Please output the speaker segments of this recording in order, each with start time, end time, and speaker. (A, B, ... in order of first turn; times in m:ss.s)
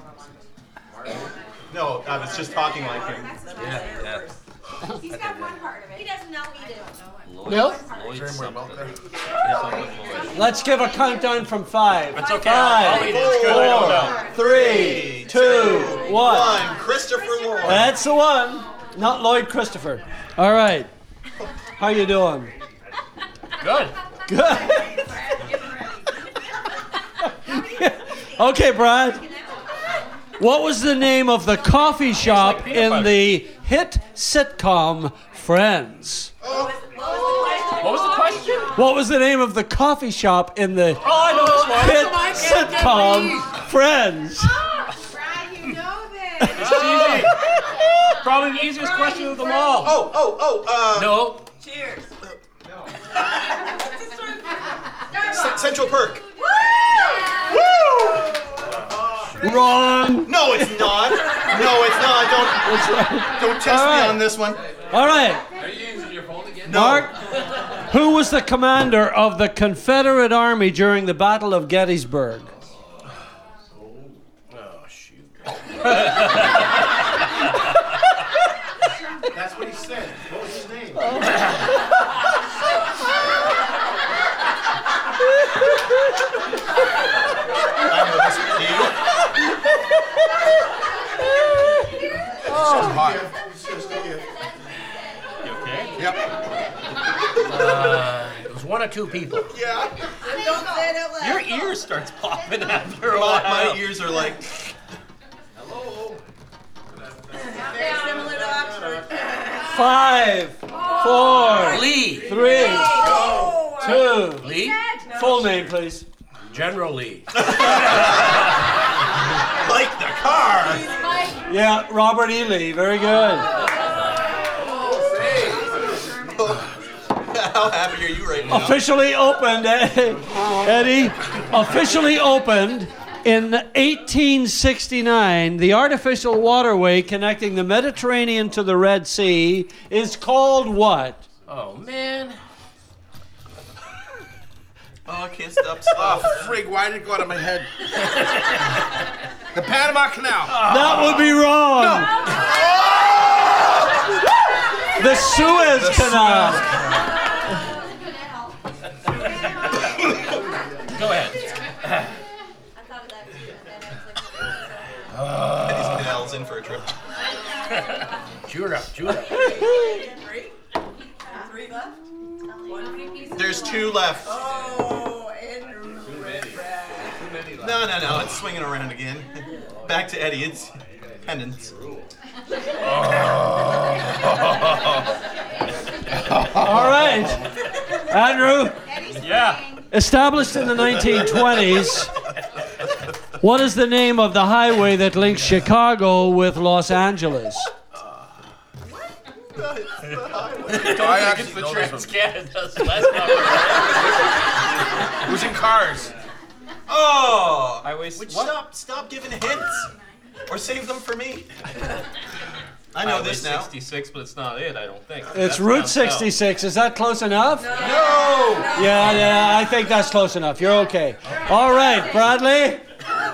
0:01.7-0:03.3 A
0:02.4-0:04.4 B
0:03.5-0:04.2 C
0:05.1-0:05.5 C
0:07.2-0:08.9 C
0:07.4-0:07.8 D
0:08.0-0:09.0 E
0:09.4-0:10.4 C
0:10.3-0:16.6 D
0:12.1-0:14.3 C
0:13.0-0:17.9 A
0:13.1-0:14.0 E
0:17.6-0:20.9 D
0:21.8-0:22.5 D
0:23.6-0:23.9 C
0:24.3-0:25.0 D
0:27.4-0:29.2 D
0:30.4-0:36.3 D
0:32.2-0:33.3 C
0:36.4-0:36.7 E
0:36.4-0:38.6 B
0:37.8-0:38.8 C
0:38.7-0:44.6 D
0:41.0-0:43.5 C
0:42.5-0:42.9 F
0:44.7-0:46.8 F
0:46.5-0:47.4 C
0:47.0-0:47.2 A
0:48.2-0:50.0 C
0:49.8-0:51.4 A
0:50.9-0:51.4 C
0:51.6-0:52.1 B
0:55.2-0:56.2 A
0:56.6-0:57.2 B
0:57.5-0:58.4 A
0:59.4-1:00.9 D
1:00.2-1:04.6 A
1:02.6-1:04.3 D
1:04.9-1:05.4 D
1:06.6-1:07.1 A
1:06.7-1:07.1 D
1:07.9-1:12.5 D
1:14.5-1:15.4 C
1:19.3-1:21.2 E
1:21.0-1:21.4 D
1:27.8-1:29.0 A
1:32.4-1:33.5 E
1:35.4-1:35.9 C
1:36.0-1:36.2 E
1:37.5-1:39.5 C
1:39.5-1:39.9 E
1:40.2-1:41.7 B
1:41.2-1:43.9 C
1:43.0-1:44.4 A
1:47.4-1:49.7 B
1:49.7-1:53.2 D
1:51.0-1:55.5 B
1:51.5-1:52.4 C
1:53.8-1:54.5 D
1:54.4-1:54.8 C
1:55.1-1:56.0 D
1:56.5-1:57.3 C
1:57.4-1:58.2 A
1:59.6-2:00.8 A
2:01.0-2:01.3 B
2:01.5-2:03.5 D
2:06.4-2:06.6 A
2:07.3-2:08.8 A
2:08.5-2:21.2 D
2:21.5-2:22.4 C
2:25.0-2:26.4 A
2:25.9-2:27.7 E
2:29.5-2:30.7 E
2:30.5-2:31.2 C
2:30.6-2:32.1 D
2:31.7-2:32.1 E
2:35.0-2:36.6 D
2:35.7-2:36.6 A
2:40.9-2:41.4 C
2:45.2-2:46.0 C
2:45.6-2:46.9 A
2:48.5-2:49.4 C
2:49.0-2:50.5 B
2:51.3-2:52.0 B
2:52.6-2:53.1 B
2:53.4-2:54.3 A
2:54.2-2:57.1 B
2:57.6-3:01.7 A
3:06.6-3:07.4 D
3:08.1-3:08.8 D
3:09.2-3:09.7 C
3:09.9-3:12.1 D
3:13.4-3:17.7 D
3:19.6-3:20.9 A
3:20.6-3:24.2 C
3:20.7-3:22.1 E
3:25.2-3:26.1 E
3:26.9-3:29.9 A
3:27.8-3:28.6 C
3:30.5-3:31.5 A
3:32.9-3:33.7 A
3:33.0-3:36.3 C
3:35.3-3:37.7 D
3:37.6-3:39.4 B
3:37.8-3:38.7 A
3:37.8-3:38.7 E
3:38.7-3:42.8 D